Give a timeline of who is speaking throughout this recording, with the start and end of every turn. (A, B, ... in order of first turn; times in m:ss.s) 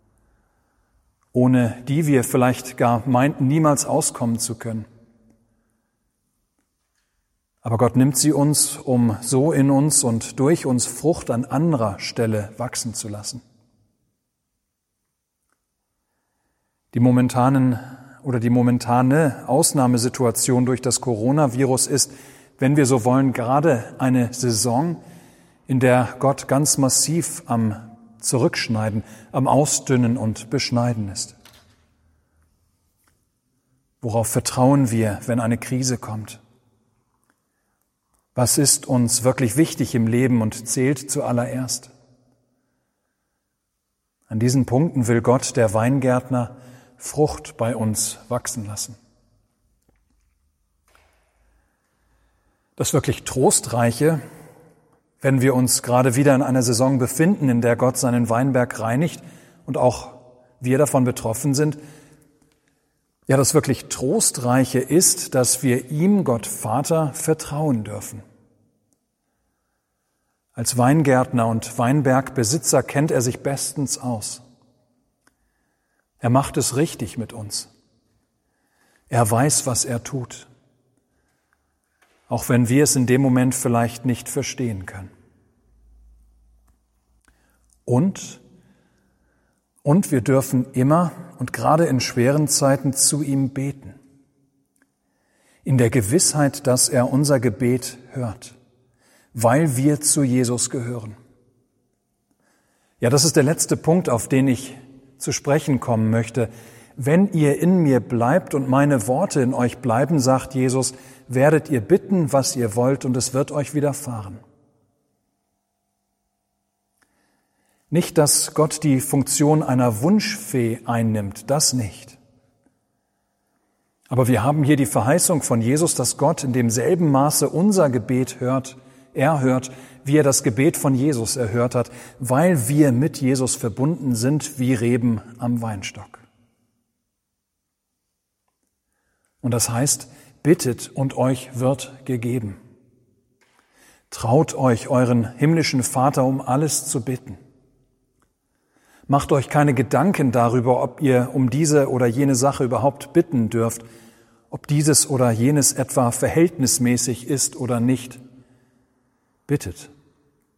0:01.3-0:04.9 A
0:07.6-0:13.4 A
0:16.9-0:25.0 A
0:25.7-0:31.4 A
0:34.0-0:36.4 A
0:38.4-0:41.9 A
0:44.3-0:49.0 A
0:52.8-0:54.2 A
0:55.2-1:01.8 A
1:03.3-1:08.2 A
1:10.6-1:14.4 A
1:16.2-1:17.7 A
1:19.1-1:20.5 A
1:22.3-1:25.1 A
1:27.9-1:28.4 A
1:29.8-1:34.0 A
1:35.6-1:38.6 A
1:39.3-1:41.2 A
1:43.0-1:54.4 A
1:57.9-2:02.2 A
2:04.1-2:16.2 A
2:19.4-2:22.6 A
2:24.1-2:27.4 A
2:29.1-2:33.8 A
2:34.5-2:38.2 A
2:39.5-2:39.9 A